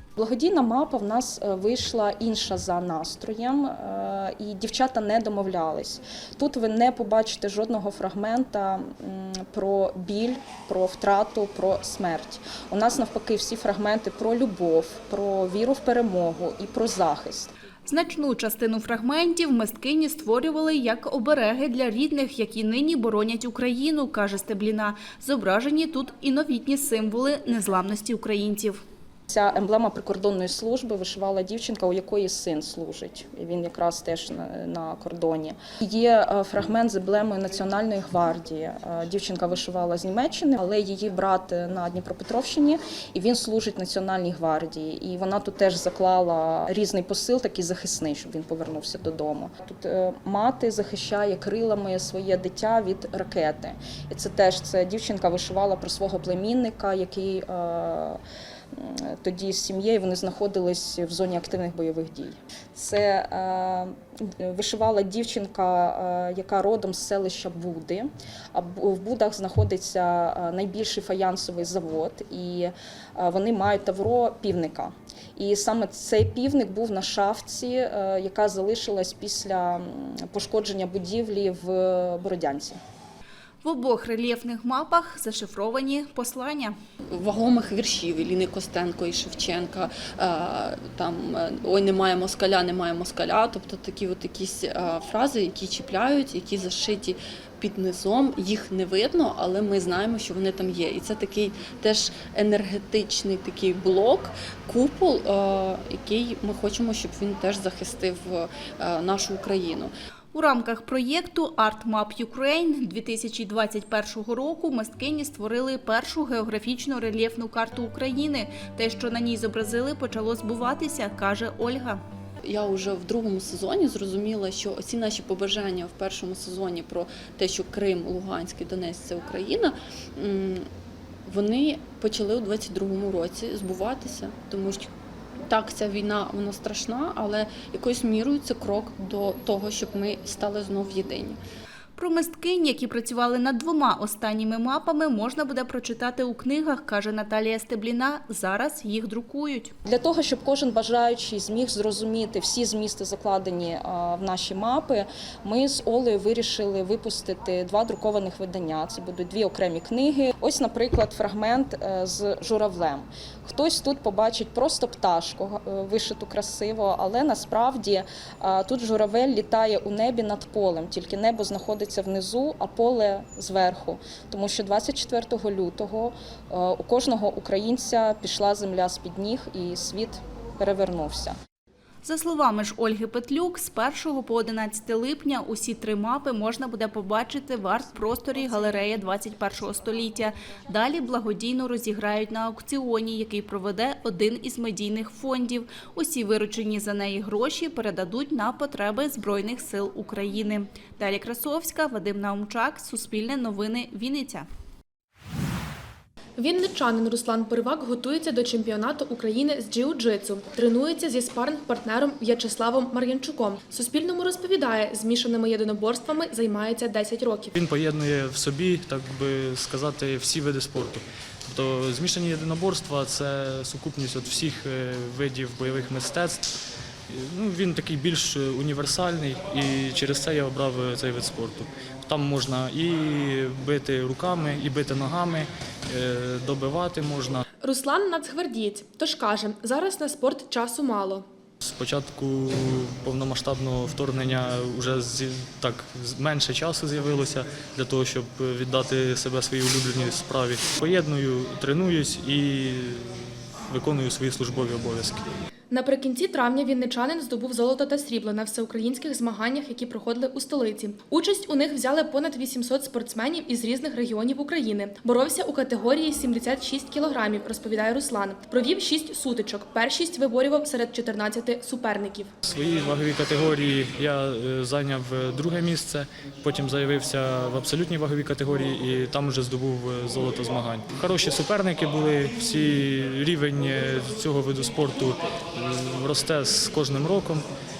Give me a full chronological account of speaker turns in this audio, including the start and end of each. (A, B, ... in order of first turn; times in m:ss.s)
0:00.2-0:17.5 A
0:17.9-0:28.8 B
0:29.3-0:58.2 A
0:58.8-1:22.8 A
1:23.6-1:26.8 B
1:27.2-1:49.9 C
1:50.3-2:02.0 B
2:02.5-2:10.7 C
2:11.3-2:14.9 C
2:15.5-2:21.4 C
2:22.0-2:29.7 B
2:29.8-3:01.4 A
3:02.0-3:24.5 B
3:26.4-3:37.5 D
3:37.5-3:46.5 E
3:47.1-3:57.4 E
3:57.6-4:01.2 D
4:01.6-4:13.1 E
4:13.7-4:15.2 E
4:15.7-4:32.3 D
4:32.4-4:47.5 E